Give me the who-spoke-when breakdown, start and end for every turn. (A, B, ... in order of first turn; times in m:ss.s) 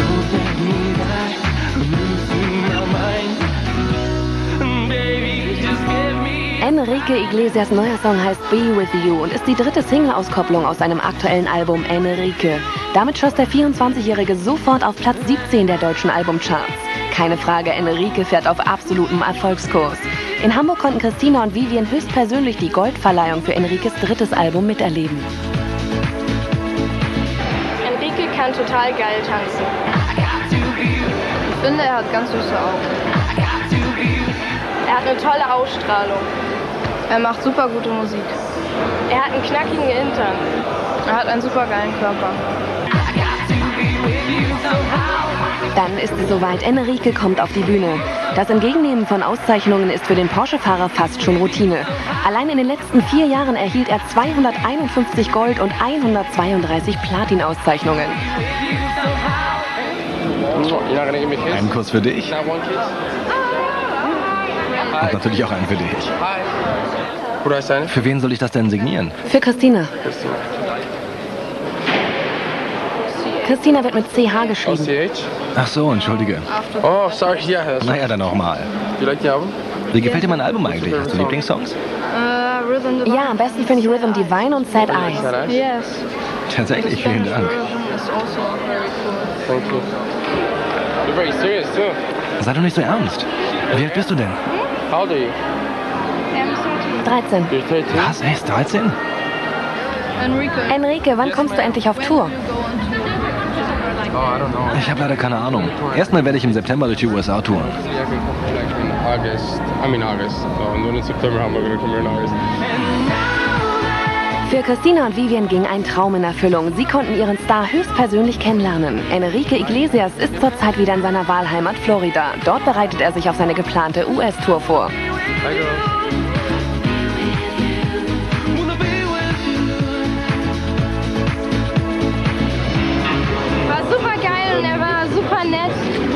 0:06.6-0:25.2 A
0:27.8-0:29.7 B
0:31.6-0:32.9 B
0:34.8-0:36.3 B
0:37.1-0:38.4 B
0:39.1-0:40.5 B
0:41.0-0:42.4 B
0:45.7-0:58.2 A
1:00.5-1:01.7 C
1:01.5-1:02.3 D
1:02.3-1:02.9 C
1:05.0-1:06.1 D
1:06.2-1:06.4 C
1:07.4-1:08.0 C
1:07.9-1:09.2 D
1:09.2-1:09.9 A
1:10.0-1:10.5 C
1:13.4-1:14.9 A
1:14.6-1:15.3 C
1:15.6-1:16.5 D
1:16.5-1:16.9 B
1:16.8-1:18.2 C
1:17.8-1:18.7 D
1:18.9-1:19.5 C
1:19.9-1:21.8 D
1:20.5-1:21.4 C
1:22.1-1:26.1 B
1:23.0-1:25.3 A
1:24.8-1:25.6 C
1:26.5-1:27.6 D
1:26.8-1:29.4 B
1:29.4-1:29.9 C
1:31.0-1:32.0 C
1:32.4-1:34.4 D
1:34.9-1:35.4 C
1:36.3-1:37.1 B
1:37.0-1:37.5 A
1:37.5-1:38.1 C
1:37.9-1:38.9 D
1:40.2-1:40.8 B
1:40.7-1:42.3 A
1:41.6-1:43.2 B
1:44.1-1:46.3 C
1:44.7-1:47.7 D
1:47.6-1:52.4 C
1:54.4-2:04.9 A
2:05.4-2:05.8 C
2:13.6-2:16.0 B